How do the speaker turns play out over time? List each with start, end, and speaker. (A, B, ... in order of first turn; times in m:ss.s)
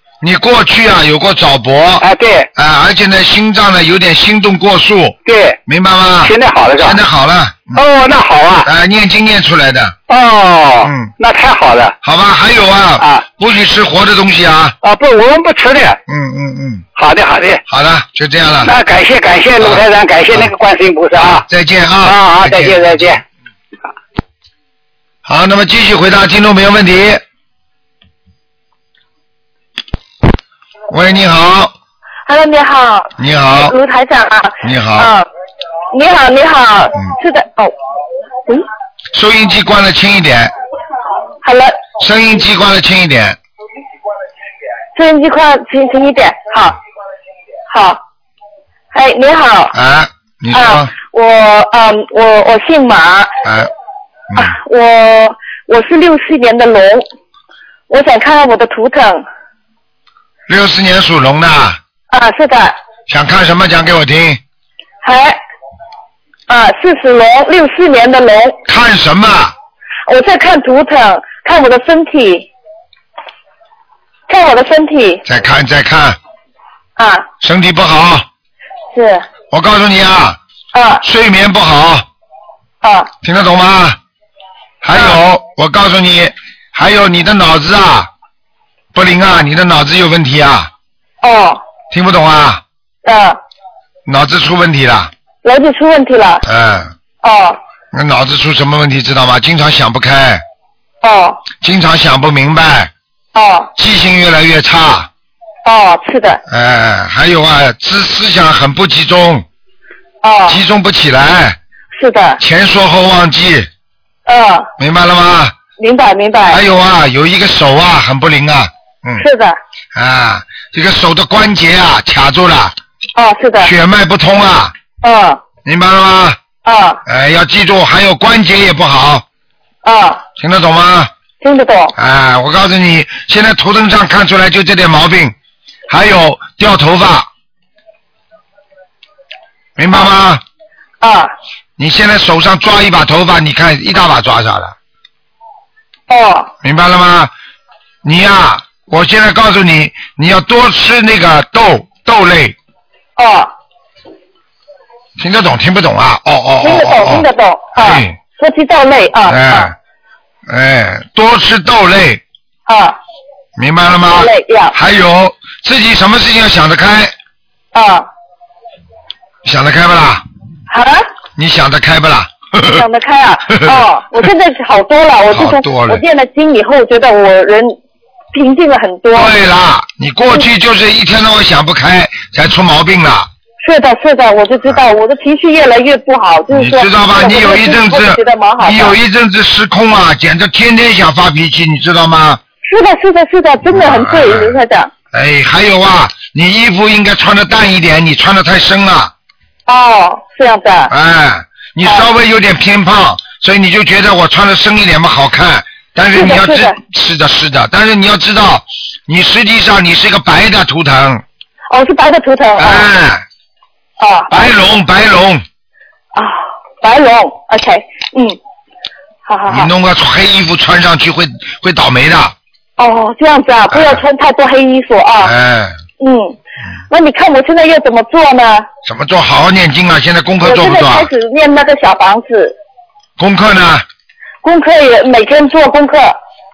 0:00.2-0:07.8 A
0:02.0-0:02.5 B
0:05.2-0:05.6 B
0:06.2-0:07.0 B
0:07.7-0:08.7 B
0:08.6-0:09.9 A
0:10.1-0:12.0 B
0:10.8-0:11.1 A
0:12.0-0:14.8 A
0:13.0-0:13.3 B
0:14.8-0:16.0 B
0:16.1-0:16.8 A
0:16.9-0:17.6 B
0:17.7-0:18.7 A
0:18.6-0:21.4 B
0:21.2-0:23.0 A
0:22.0-0:23.2 B
0:25.2-0:27.2 A
0:30.9-0:31.7 A
0:32.2-0:35.3 C
0:33.2-0:33.7 A
0:34.6-0:35.1 A
0:35.9-0:37.7 C
0:39.1-0:40.5 A
0:41.4-0:41.8 C
0:42.0-0:43.4 A
0:45.0-0:46.8 C
0:47.7-0:48.0 C
0:48.9-0:49.7 C
0:49.7-0:50.9 A
0:50.5-0:53.4 C
0:53.4-0:53.7 A
0:54.4-0:57.0 C
0:57.9-0:59.2 C
1:00.5-1:01.8 A
1:02.1-1:02.8 C
1:03.1-1:04.4 A
1:05.0-1:05.4 C
1:06.5-1:08.6 C
1:08.6-1:09.5 A
1:10.1-1:12.5 C
1:14.3-1:15.2 C
1:15.2-1:16.2 A
1:17.0-1:17.3 C
1:17.4-1:18.2 A
1:18.9-1:19.2 C
1:19.5-1:20.4 A
1:20.7-1:21.0 C
1:21.0-1:22.0 A
1:22.8-1:23.1 C
1:23.2-1:24.0 A
1:24.8-1:28.1 A
1:24.9-1:25.2 C
1:28.9-1:30.7 A
1:31.2-1:31.6 C
1:31.9-1:32.6 A
1:33.0-1:33.4 C
1:34.0-1:35.1 A
1:35.4-1:36.4 C
1:36.4-1:36.9 A
1:37.2-1:37.6 C
1:37.9-1:40.4 A
1:41.0-1:41.4 C
1:41.6-1:42.9 A
1:43.3-1:43.7 C
1:43.8-1:45.1 A
1:45.6-1:46.4 C
1:46.5-1:49.4 A
1:50.2-1:50.6 C
1:50.5-1:51.6 A
1:51.9-1:52.4 C
1:52.4-1:53.7 A
1:54.2-1:54.7 C
1:54.8-1:55.6 A
1:55.8-1:56.6 C
1:56.5-1:59.2 A
1:59.2-1:59.6 C
1:59.9-2:02.7 A
2:03.2-2:03.7 C
2:03.6-2:04.7 A
2:05.0-2:05.4 C
2:05.6-2:06.4 A
2:06.6-2:07.0 C
2:07.0-2:09.2 A
2:09.8-2:10.2 C
2:10.4-2:11.1 A
2:11.4-2:11.9 C
2:12.0-2:15.3 A
2:15.9-2:17.3 A
2:19.8-2:20.4 A
2:21.0-2:21.3 C
2:21.8-2:24.7 A
2:26.1-2:26.5 C
2:26.6-2:27.3 A
2:28.0-2:32.6 A
2:33.2-2:33.5 C
2:35.2-2:37.2 A
2:36.6-2:39.7 C
2:37.8-2:38.2 A
2:39.3-2:39.7 A
2:40.5-2:42.2 A
2:42.6-2:43.0 C
2:43.6-2:47.1 A
2:44.1-2:44.8 C
2:47.7-2:48.1 C
2:49.4-2:50.2 A
2:50.7-2:51.1 C
2:51.4-2:52.8 A
2:52.6-2:57.8 C
2:53.5-2:53.8 A
2:55.3-2:56.0 A
2:58.3-2:59.3 C
2:59.1-3:03.3 A
3:03.6-3:09.0 C
3:06.5-3:12.4 A
3:12.6-3:14.9 C
3:13.7-3:14.6 A
3:15.1-3:19.1 A
3:19.7-3:20.9 C
3:20.9-3:31.2 A
3:21.8-3:22.1 C
3:26.1-3:26.8 C
3:31.7-3:32.9 C
3:32.6-3:33.2 A
3:34.0-3:34.6 C
3:34.3-3:35.4 A
3:36.1-3:38.4 C
3:39.2-3:39.7 C
3:39.5-3:42.3 A
3:42.8-3:45.3 C
3:43.7-3:44.0 A
3:45.2-3:45.8 A
3:46.0-3:46.4 C
3:46.9-3:48.7 C
3:48.8-3:51.1 A
3:50.4-3:52.6 C
3:53.2-3:53.8 A
3:54.4-3:56.2 C